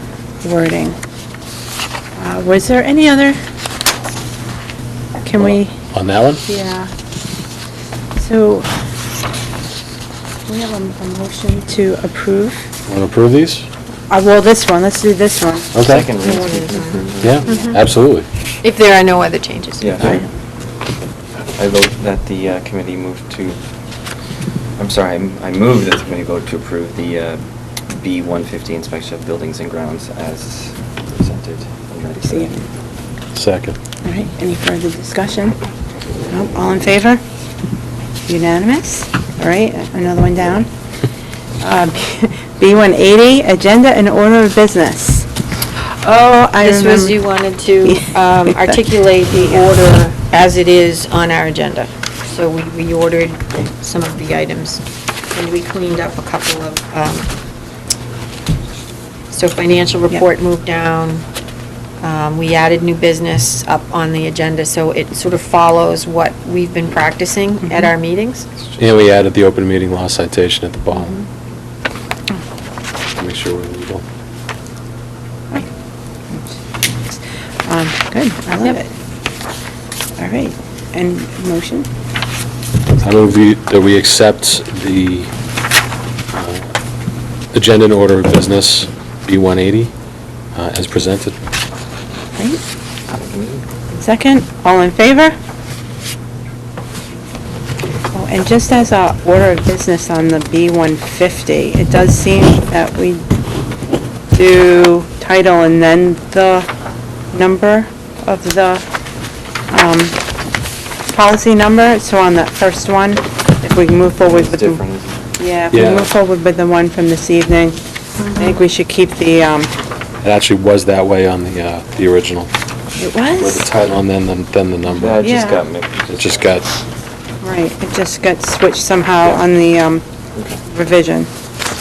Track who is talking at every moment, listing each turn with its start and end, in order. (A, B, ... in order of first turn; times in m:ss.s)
0:00.4-0:01.0 A
0:02.2-0:03.4 A
0:05.2-0:05.7 A
0:05.9-0:06.4 B
0:06.4-0:06.9 A
0:08.2-0:08.7 A
0:10.5-0:12.7 A
0:12.9-0:13.7 B
0:14.1-0:16.3 A
0:15.7-0:16.1 B
0:15.8-0:17.5 C
0:16.2-0:17.8 D
0:17.2-0:18.2 B
0:18.6-0:19.9 D
0:19.8-0:20.2 C
0:20.0-0:20.2 A
0:21.6-0:23.6 C
0:24.8-0:32.6 C
0:32.3-0:32.6 A
0:33.3-0:33.8 B
0:34.0-0:35.6 A
0:36.3-0:37.2 A
0:38.3-0:40.7 A
0:41.6-0:45.3 A
0:46.0-0:47.2 A
0:46.6-0:57.3 D
0:47.8-0:49.7 A
0:59.3-1:01.2 D
1:02.0-1:08.4 D
1:08.8-1:11.2 B
1:10.9-1:11.2 A
1:13.2-1:14.0 B
1:16.3-1:18.9 A
1:20.2-1:21.9 A
1:23.0-1:25.3 B
1:26.3-1:26.7 B
1:27.5-1:29.9 B
1:30.5-1:31.4 B
1:33.1-1:33.6 C
1:33.9-1:35.3 A
1:38.1-1:43.2 A
1:44.3-1:46.7 A
1:47.3-1:48.8 A
1:49.7-1:50.2 A
1:51.1-1:54.8 A
1:54.2-1:55.3 C
1:55.4-1:57.8 A
1:55.7-1:56.1 B
1:58.3-1:59.7 A
2:00.2-2:02.5 B
2:03.0-2:03.7 A
2:03.3-2:05.3 B
2:05.0-2:06.5 C
2:05.2-2:05.6 A
2:06.1-2:06.6 B
2:07.4-2:10.0 A
2:10.4-2:10.6 C
2:10.6-2:11.3 A